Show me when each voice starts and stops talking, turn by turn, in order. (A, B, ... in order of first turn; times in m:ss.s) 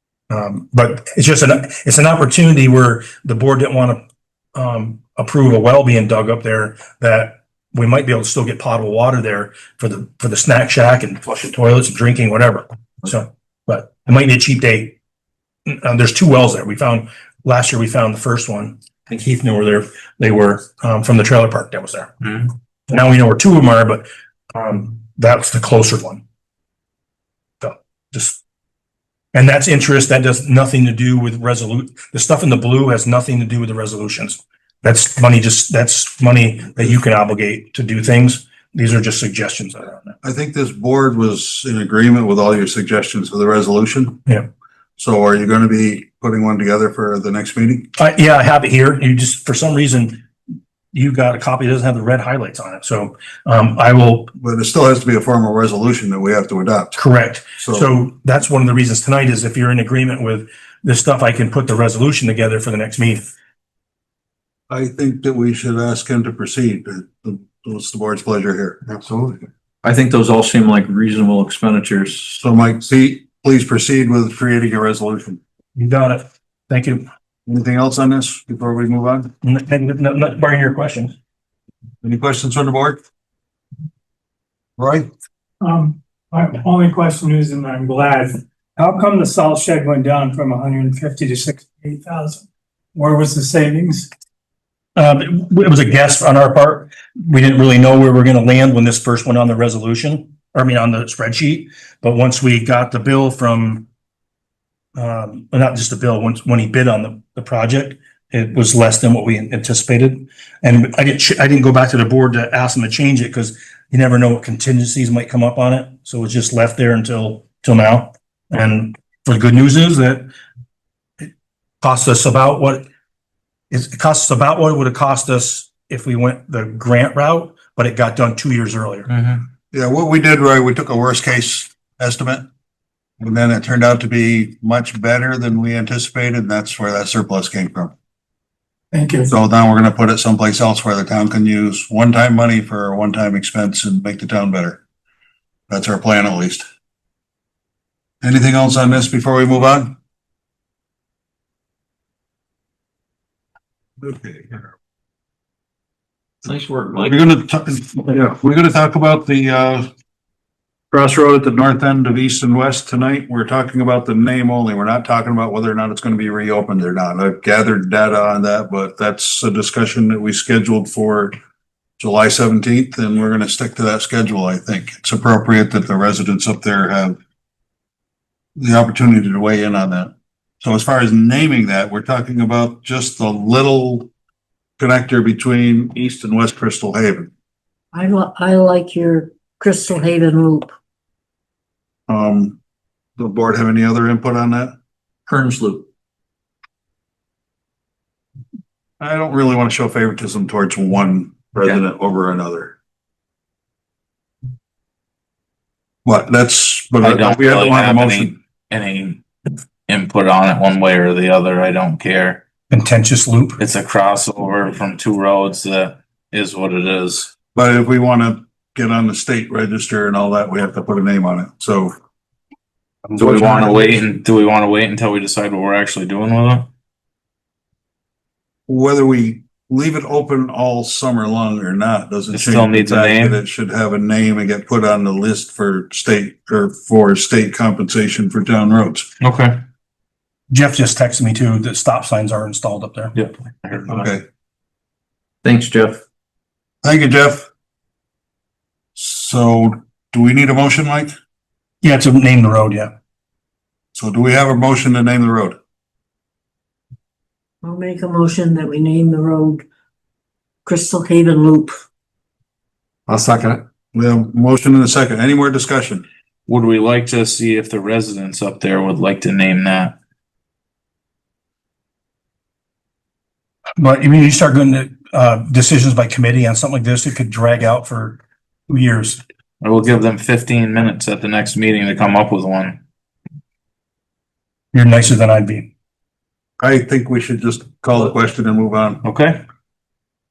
0:00.3-0:04.0 A
0:04.5-0:15.0 A
0:15.6-0:22.2 A
0:22.9-0:26.2 A
0:27.6-0:28.4 A
0:29.3-0:40.2 A
0:40.2-0:44.2 B
0:45.0-0:47.9 B
0:48.0-0:50.2 A
0:50.9-0:54.3 A
0:54.4-0:57.0 B
0:57.0-1:03.3 A
0:57.6-0:57.9 B
1:04.7-1:09.0 B
1:09.8-1:12.4 C
1:12.4-1:15.4 B
1:15.8-1:17.0 A
1:17.5-1:19.3 B
1:19.4-1:21.1 A
1:22.0-1:23.0 B
1:24.8-1:25.1 B
1:25.6-1:32.4 D
1:32.9-1:34.1 D
1:35.0-1:43.8 A
1:45.0-2:00.3 A
2:01.8-2:02.8 A
2:03.7-2:09.1 A
2:09.1-2:09.4 E
2:09.7-2:12.4 B
2:13.2-2:17.9 B
2:18.9-2:19.3 D
2:19.3-2:24.8 B
2:25.7-2:26.6 B
2:28.2-2:29.9 B
2:34.0-2:34.7 B
2:36.4-2:37.2 C
2:37.0-2:39.9 B
2:40.9-2:51.4 B
2:52.0-2:57.2 B
2:58.6-3:04.1 B
3:04.8-3:07.3 B
3:07.9-3:10.7 F
3:12.1-3:12.6 B
3:13.2-3:14.7 B
3:15.3-3:15.9 C
3:19.0-3:22.7 B
3:26.0-3:28.3 B
3:27.0-3:29.2 E
3:29.9-3:32.4 E
3:32.7-3:33.6 A
3:33.6-3:37.3 E
3:37.5-3:41.9 B
3:43.2-3:46.7 E
3:48.7-3:59.1 B
3:52.3-3:53.4 E
3:59.2-3:59.6 E
4:00.5-4:03.2 A
4:03.2-4:03.9 E
4:03.9-4:04.2 B
4:05.4-4:06.0 C
4:06.8-4:07.4 B
4:08.9-4:11.1 B
4:11.8-4:12.9 A
4:13.9-4:15.6 B
4:17.6-4:19.6 F
4:20.6-4:21.8 F
4:23.9-4:26.0 B
4:26.5-4:30.0 E
4:33.8-4:39.2 A
4:39.6-4:42.8 E
4:44.7-4:45.7 A
4:46.6-4:49.0 B
4:49.0-4:49.4 E